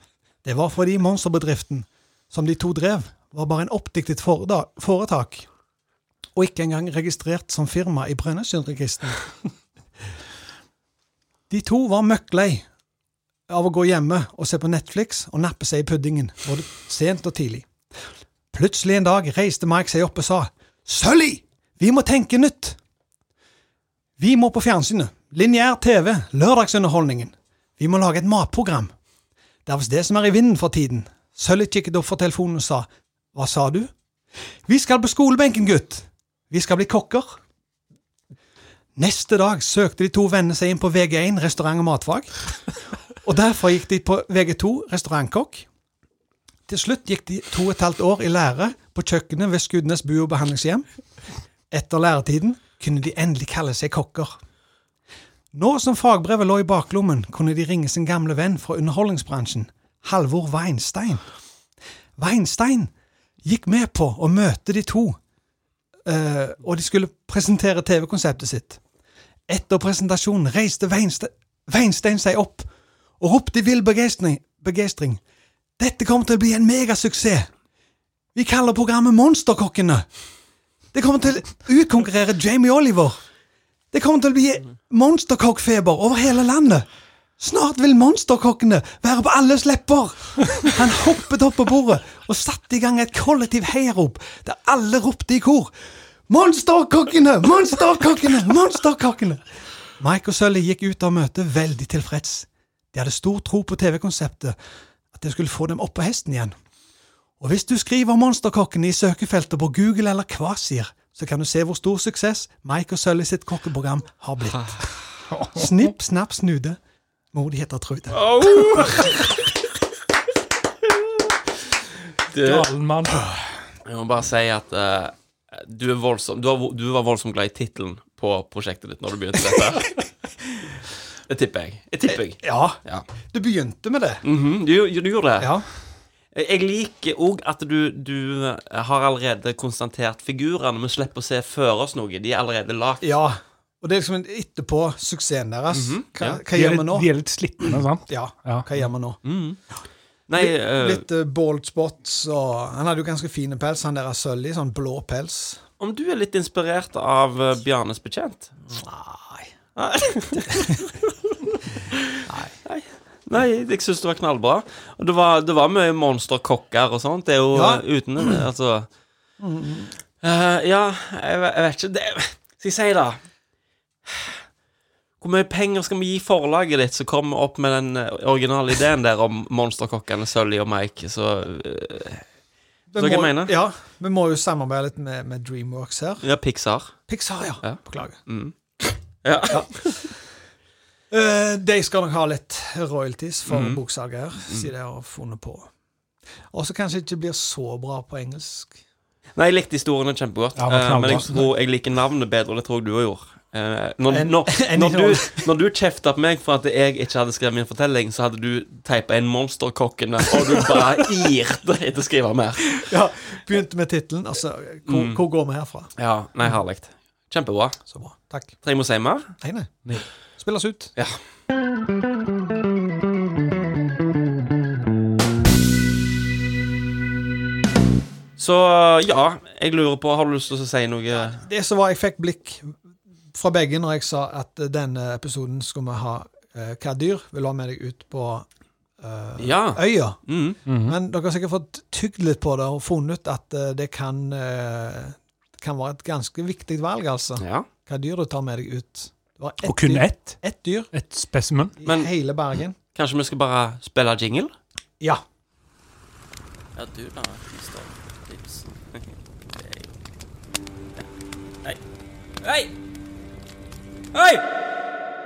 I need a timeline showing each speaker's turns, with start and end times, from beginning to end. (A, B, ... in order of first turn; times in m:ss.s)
0:00.4-0:05.5 A
0:06.3-0:09.5 A
0:11.5-0:12.6 A
0:13.5-0:17.7 A
0:18.5-0:22.8 A
0:24.2-0:28.9 A
0:29.6-0:33.9 A
0:34.6-0:37.4 A
0:39.0-0:42.4 A
0:43.2-0:45.7 A
0:46.7-0:50.8 A
0:51.7-0:54.3 A
0:55.5-1:01.2 A
1:02.2-1:02.9 A
1:03.4-1:05.2 A
1:06.0-1:08.8 A
1:09.5-1:12.7 A
1:13.2-1:15.2 A
1:15.8-1:17.5 A
1:18.3-1:20.1 A
1:20.9-1:23.2 A
1:23.9-1:26.8 A
1:27.4-1:35.7 A
1:36.3-1:39.4 A
1:40.0-1:44.6 A
1:45.1-1:46.5 A
1:47.4-1:54.9 A
1:55.5-1:56.8 A
1:57.3-1:59.2 A
1:58.1-1:59.4 B
2:02.3-2:02.7 B
2:02.4-2:03.3 C
2:03.8-2:09.9 B
2:11.3-2:13.0 B
2:12.1-2:14.2 A
2:14.2-2:15.6 B
2:15.4-2:15.6 A
2:16.3-2:23.0 B
2:23.0-2:27.1 A
2:25.7-2:26.4 B
2:26.5-2:28.7 C
2:28.1-2:29.2 A
2:29.2-2:29.6 B
2:30.3-2:31.0 B
2:30.4-2:35.6 A
2:35.8-2:38.5 B
2:38.7-2:39.5 A
2:39.8-2:41.1 B
2:40.4-2:40.8 A
2:41.9-2:48.9 B
2:42.2-2:42.5 A
2:47.5-2:48.4 A
2:49.4-2:50.0 A
2:50.2-2:53.2 B
2:54.0-2:54.4 B
2:55.2-3:02.2 B
3:02.9-3:06.2 A
3:03.0-3:03.5 B
3:06.2-3:07.0 B
3:07.1-3:08.2 A
3:07.6-3:08.5 B
3:09.2-3:10.0 B
3:09.5-3:10.1 A
3:11.1-3:15.7 A
3:13.4-3:13.8 B
3:16.5-3:18.8 A
3:19.4-3:32.9 B
3:20.6-3:21.4 C
3:24.1-3:25.4 A
3:32.7-3:35.9 A
3:34.9-3:35.2 B
3:36.0-3:37.8 B
3:37.9-3:38.5 A
3:38.6-3:39.3 B
3:39.4-3:39.7 A
3:40.4-3:40.9 A
3:48.4-3:51.4 B
3:51.1-3:52.7 A
3:53.3-3:58.4 A
3:59.0-4:00.2 A
3:59.4-4:00.6 B
4:00.6-4:01.0 C
4:00.8-4:10.9 A
4:07.4-4:07.7 B
4:09.6-4:11.8 C
4:11.8-4:12.8 A
4:11.8-4:12.1 B
4:12.9-4:14.5 B
4:16.8-4:20.0 B
4:22.4-4:22.7 B
4:24.1-4:24.4 B